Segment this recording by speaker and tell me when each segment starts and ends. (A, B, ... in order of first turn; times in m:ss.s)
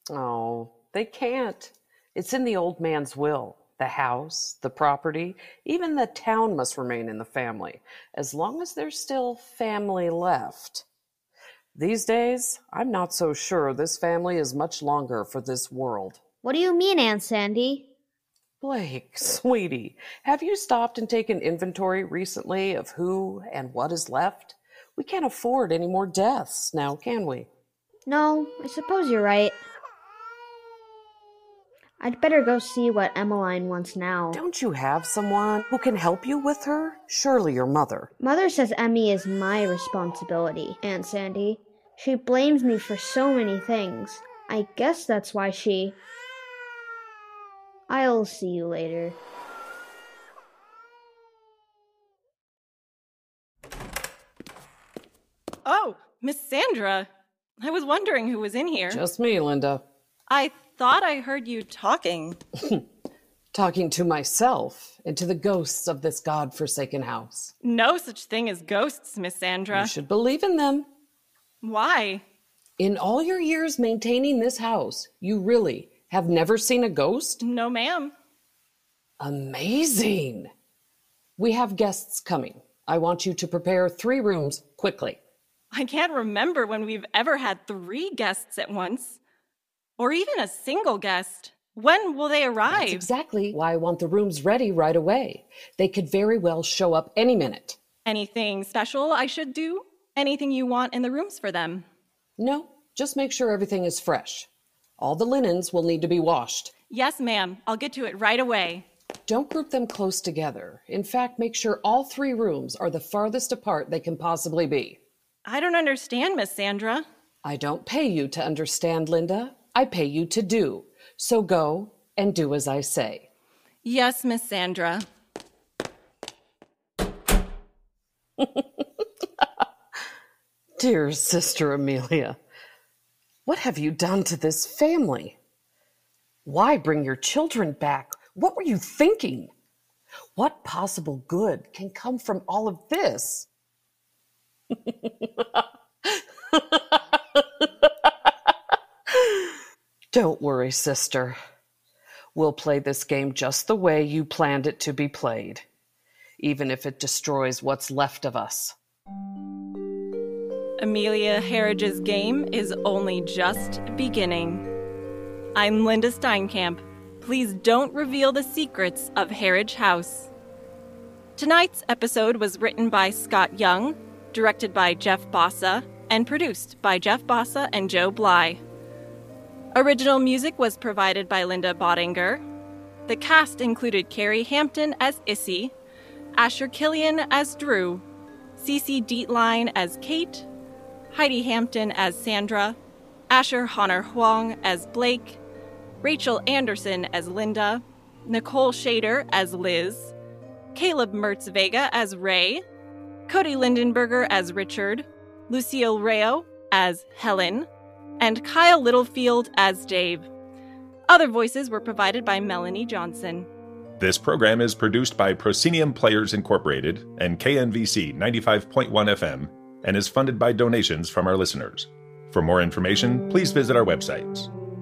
0:00.1-0:10.8 A
0:11.7-0:16.2 A
0:16.4-0:17.8 B
0:18.6-0:27.5 A
0:28.1-0:29.6 B
0:32.0-0:34.4 B
0:34.5-0:38.1 A
0:38.2-0:45.9 B
0:47.9-0:49.2 B
0:55.7-0:57.1 C
0:57.6-0:59.0 C
0:59.0-0:59.8 A
1:00.3-1:02.4 C
1:03.5-1:07.5 A
1:07.6-1:09.9 C
1:09.8-1:10.9 A
1:11.6-1:12.2 C
1:12.8-1:17.4 A
1:17.4-1:18.1 C
1:19.2-1:20.5 A
1:21.4-1:25.2 A
1:25.7-1:29.2 C
1:30.0-1:33.0 C
1:32.9-1:37.8 A
1:38.0-1:41.8 C
1:42.4-1:44.5 A
1:45.0-1:46.7 A
1:46.9-1:48.8 C
1:49.3-1:55.0 A
1:55.4-1:57.0 C
1:57.4-2:03.2 A
2:03.8-2:05.0 C
2:10.8-2:12.4 A
2:13.4-2:15.4 A
2:16.4-2:19.5 A
2:20.4-2:23.5 A
2:30.1-2:31.4 A
2:32.3-2:35.6 A
2:36.4-2:38.7 A
2:40.8-2:44.6 C
2:45.6-2:50.3 C
2:51.4-2:58.6 C
2:59.7-3:02.4 C
3:03.1-3:05.7 C
3:06.4-3:08.0 C
3:08.6-3:10.5 C
3:11.1-3:12.8 C
3:13.3-3:15.4 C
3:16.0-3:20.1 C
3:20.7-3:22.6 C
3:23.3-3:27.7 C
3:28.2-3:30.3 C
3:31.1-3:33.5 C
3:34.0-3:44.5 D